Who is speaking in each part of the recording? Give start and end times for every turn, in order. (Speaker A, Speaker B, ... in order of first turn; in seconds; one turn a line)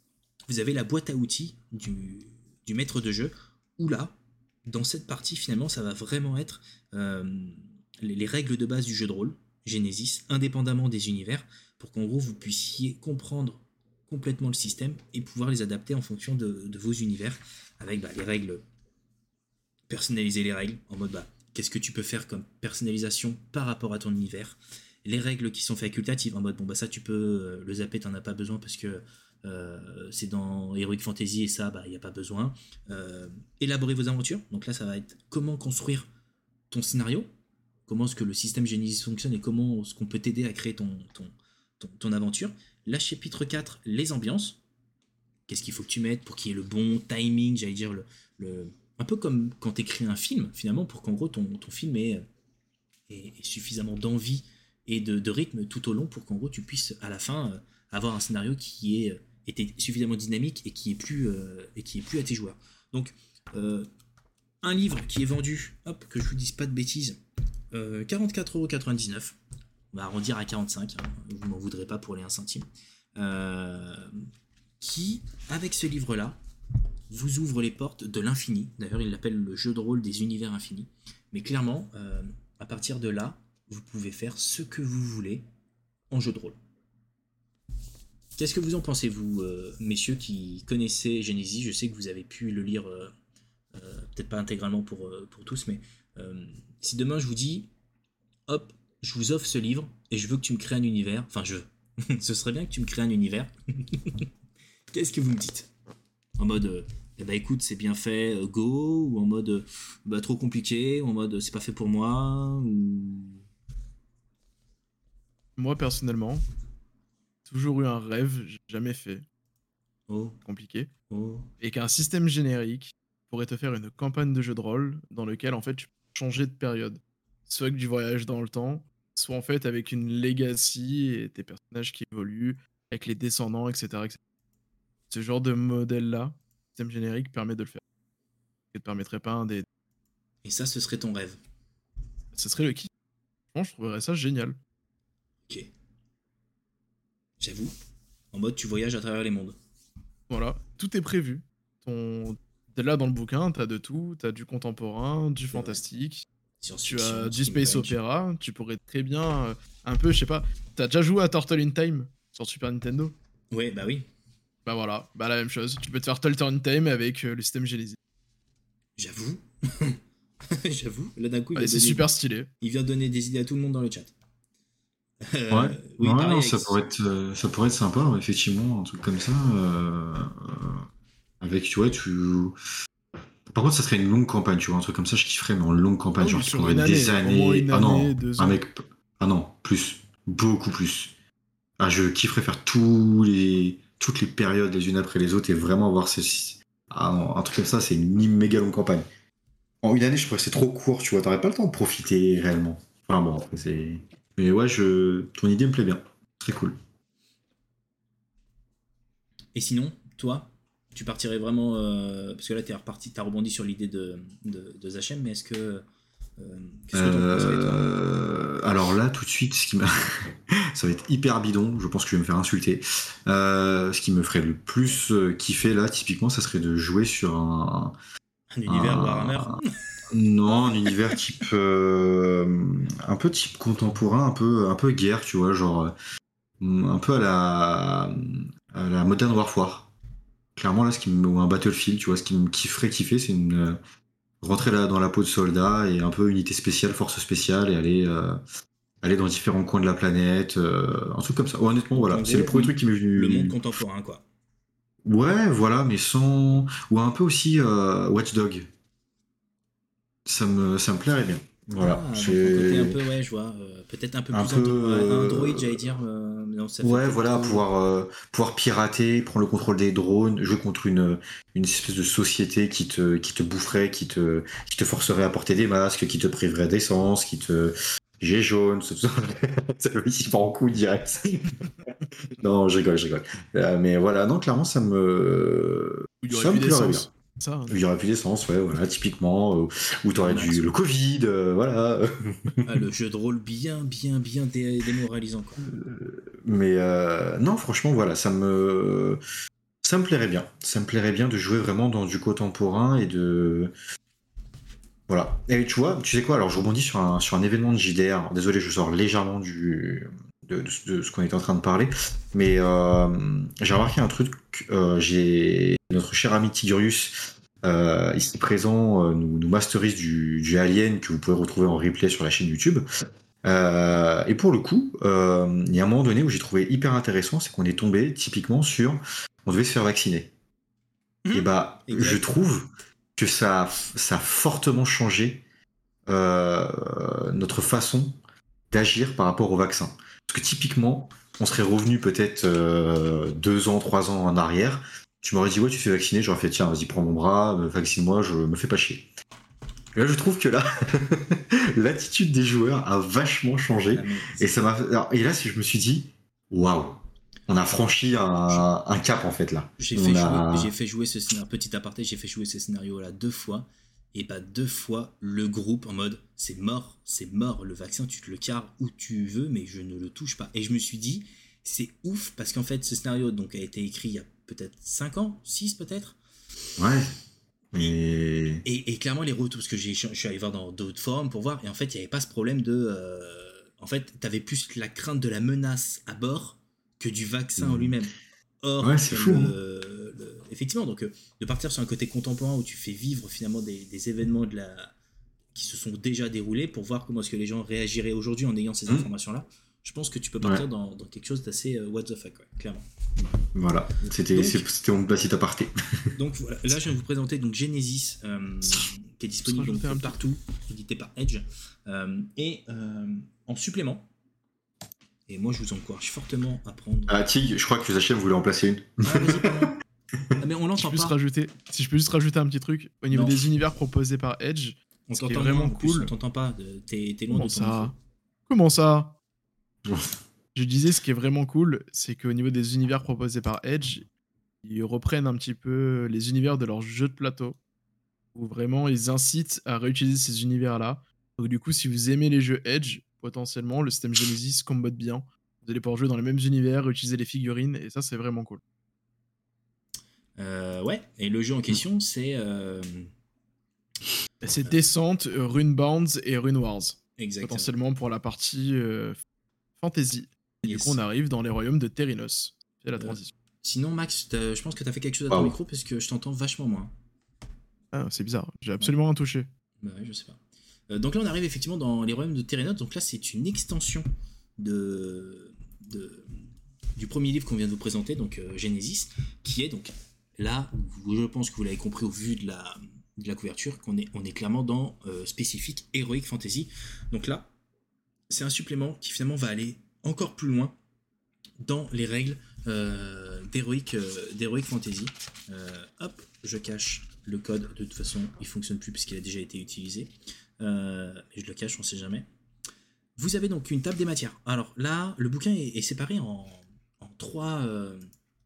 Speaker A: 0.5-18.6
Speaker A: 19.9-36.1
Speaker A: 36.7-37.3
Speaker A: 37.9-44.6
Speaker A: 45.5-52.2
Speaker A: 53.1-63.9
Speaker A: 64.6-67.2
Speaker A: 67.7-69.4
Speaker A: 69.9-72.7
Speaker A: 73.2-74.3
Speaker A: 74.8-76.4
Speaker A: 77.1-85.5
Speaker A: 86.1-86.6
Speaker A: 88.4-93.1
Speaker A: 93.7-97.7
Speaker A: 98.5-104.3
Speaker A: 104.9-105.7
Speaker A: 106.4-113.4
Speaker B: 115.6-116.5
Speaker B: 117.5-119.2
Speaker A: 120.1-120.4
Speaker B: 120.5-120.9
Speaker A: 121.1-121.5
Speaker B: 121.6-134.2
Speaker B: 135.1-137.8
Speaker B: 138.7-139.7
Speaker A: 140.4-141.4
Speaker B: 142.3-142.9
Speaker B: 143.5-144.6
Speaker A: 147.4-147.7
Speaker A: 148.3-149.6
Speaker B: 150.3-156.2
Speaker A: 155.5-155.8
Speaker A: 156.6-158.0
Speaker B: 156.9-163.1
Speaker A: 163.5-164.1
Speaker B: 164.7-168.0
Speaker A: 169.0-172.1
Speaker B: 171.6-172.5
Speaker A: 172.6-174.1
Speaker A: 175.2-176.8
Speaker C: 175.5-180.8
Speaker C: 181.4-182.6
Speaker C: 183.5-191.1
Speaker B: 186.2-188.6
Speaker C: 191.8-199.1
Speaker C: 199.8-206.8
Speaker A: 209.6-215.8
Speaker A: 216.4-217.8
Speaker C: 216.9-227.9
Speaker A: 228.5-229.7
Speaker C: 228.7-229.6
Speaker C: 230.1-235.9
Speaker C: 236.6-239.9
Speaker C: 240.6-243.8
Speaker C: 244.4-248.4
Speaker C: 249.0-253.6
Speaker A: 251.9-254.2
Speaker C: 255.1-258.7
Speaker C: 260.3-263.0
Speaker A: 261.8-267.6
Speaker C: 264.3-265.9
Speaker C: 266.8-287.1
Speaker B: 286.2-287.8
Speaker C: 287.7-292.8
Speaker A: 290.1-290.7
Speaker A: 292.6-295.6
Speaker C: 295.6-299.2
Speaker C: 299.8-303.7
Speaker C: 305.1-322.8
Speaker C: 323.4-330.3
Speaker A: 331.2-332.3
Speaker C: 331.3-335.4
Speaker C: 336.1-338.2
Speaker C: 338.7-349.1
Speaker C: 349.9-360.7
Speaker A: 353.9-354.6
Speaker A: 359.8-376.2
Speaker C: 376.8-377.1
Speaker C: 377.7-378.6
Speaker A: 378.6-394.9
Speaker C: 387.6-388.0
Speaker C: 388.8-389.6
Speaker A: 395.5-403.3
Speaker C: 403.5-406.1
Speaker A: 404.3-404.7
Speaker A: 406.2-414.1
Speaker B: 409.4-410.2
Speaker A: 415.3-417.3
Speaker C: 417.1-419.7
Speaker A: 419.0-419.8
Speaker A: 420.4-421.2
Speaker B: 420.8-426.1
Speaker A: 423.1-423.5
Speaker A: 425.1-427.9
Speaker B: 427.3-427.9
Speaker B: 428.5-429.2
Speaker C: 429.9-430.2
Speaker B: 430.6-434.1
Speaker B: 434.6-437.6
Speaker B: 438.4-448.6
Speaker A: 450.4-453.1
Speaker B: 454.4-459.2
Speaker A: 457.2-457.7
Speaker B: 459.8-463.3
Speaker A: 460.6-461.0
Speaker A: 463.0-466.9
Speaker C: 465.3-465.6
Speaker B: 467.9-469.5
Speaker A: 469.8-474.1
Speaker A: 474.6-476.4
Speaker A: 477.0-487.5
Speaker A: 488.3-490.8
Speaker A: 491.6-502.3
Speaker A: 503.2-508.1